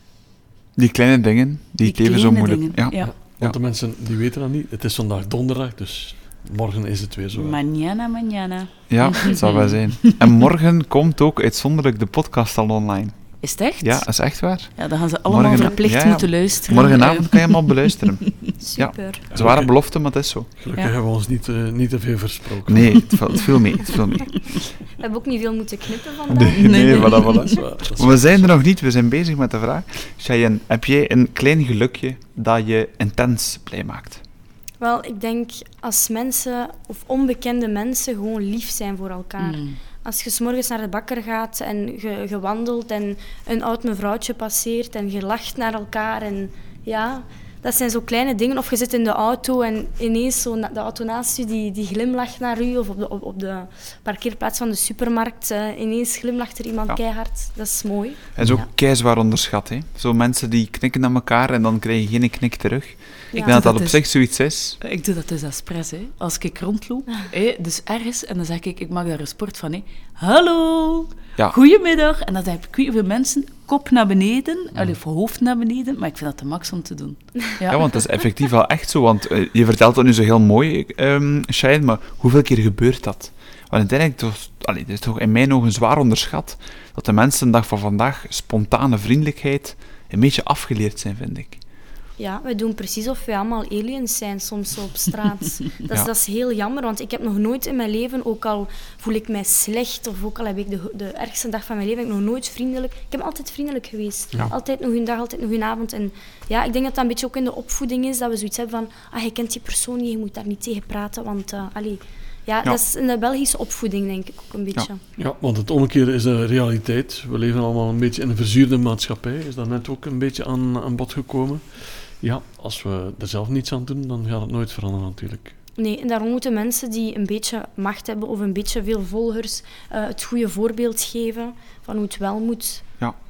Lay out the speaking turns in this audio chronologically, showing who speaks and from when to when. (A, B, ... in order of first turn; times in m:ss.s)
0:00.8-0:03.6 A
0:01.8-0:03.1 B
0:03.0-0:07.6 C
0:07.3-0:10.4 B
0:08.9-0:20.5 A
0:13.4-0:18.1 B
0:18.6-0:19.2 D
0:19.3-0:23.4 C
0:22.7-0:24.7 A
0:25.0-0:27.4 D
0:26.3-0:34.2 A
0:26.5-0:27.6 B
0:27.3-0:28.5 C
0:34.8-0:58.2 D
0:39.4-0:39.8 B
0:58.3-1:04.8 A
1:03.3-1:18.0 B
1:03.3-1:03.6 D
1:17.7-1:31.6 A
1:32.2-1:55.0 D
1:55.2-2:05.6 C
2:05.8-2:12.8 D